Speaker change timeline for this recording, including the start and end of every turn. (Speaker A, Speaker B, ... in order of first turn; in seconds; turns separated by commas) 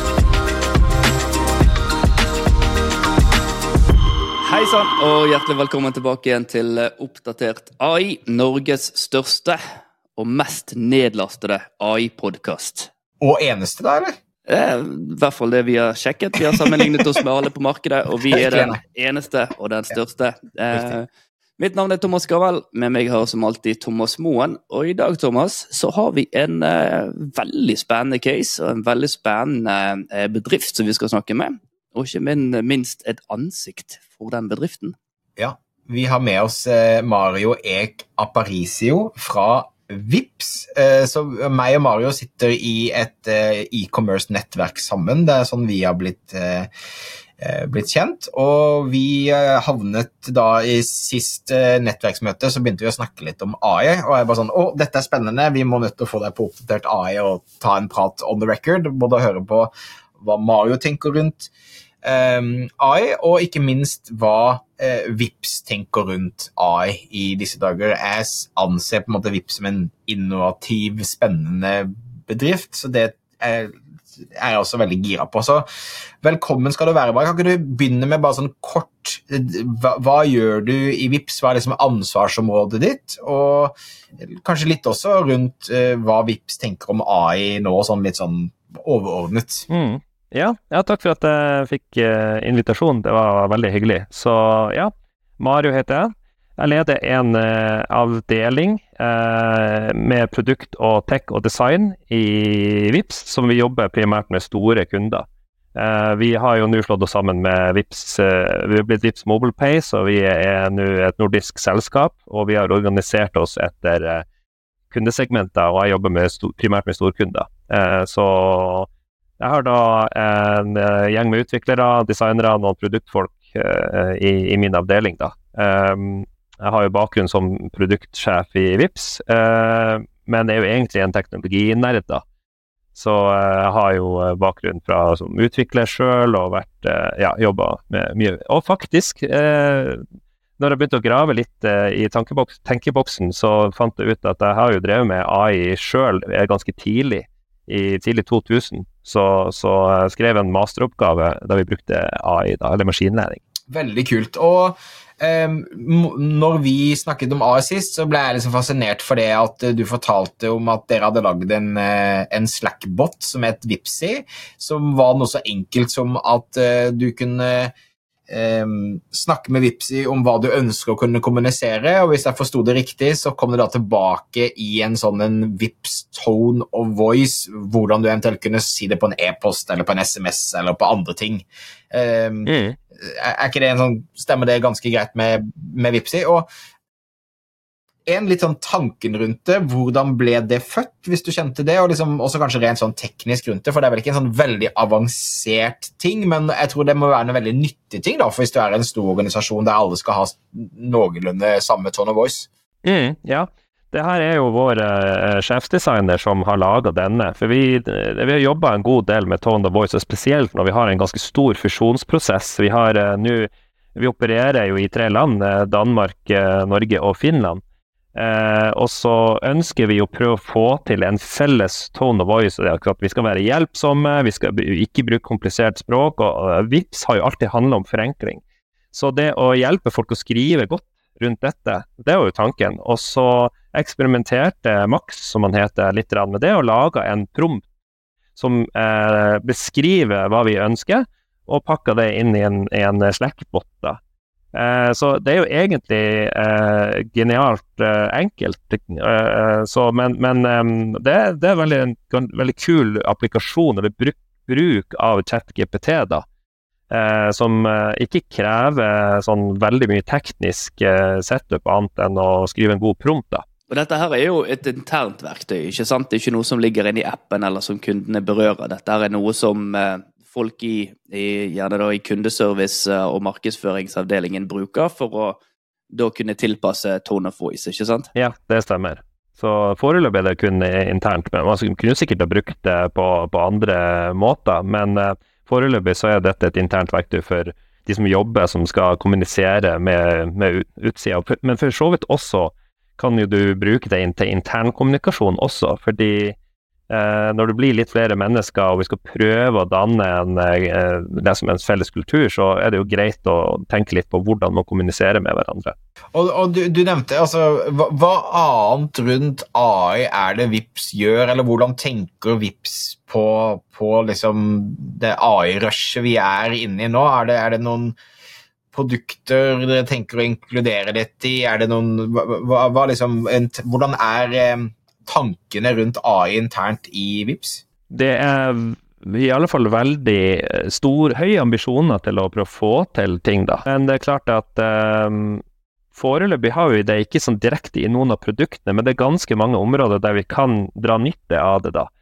Speaker A: 4.4-9.6, Speaker A: 10.2-12.9, Speaker B: 13.2-14.1, Speaker A: 14.5-21.1, Speaker B: 16.5-16.8, Speaker B: 18.3-18.8, Speaker B: 20.7-21.0, Speaker A: 21.6-34.9, Speaker B: 35.4-46.7, Speaker B: 47.4-61.5, Speaker B: 62.0-75.6, Speaker B: 76.2-89.7, Speaker C: 89.7-114.2, Speaker C: 114.9-118.9, Speaker C: 119.4-132.2, Speaker C: 132.9-140.0, Speaker C: 140.6-153.4, Speaker B: 153.7-167.7, Speaker B: 168.3-186.4, Speaker C: 182.4-182.8, Speaker B: 188.1-202.5, Speaker C: 202.8-217.6, Speaker C: 218.1-237.6, Speaker C: 238.3-244.0, Speaker C: 244.5-256.2, Speaker C: 256.9-263.4, Speaker A: 263.7-275.4, Speaker A: 275.9-278.1, Speaker C: 278.1-296.4, Speaker C: 296.9-305.7, Speaker B: 306.1-317.9, Speaker B: 318.7-327.6, Speaker C: 327.9-335.4, Speaker C: 335.9-341.9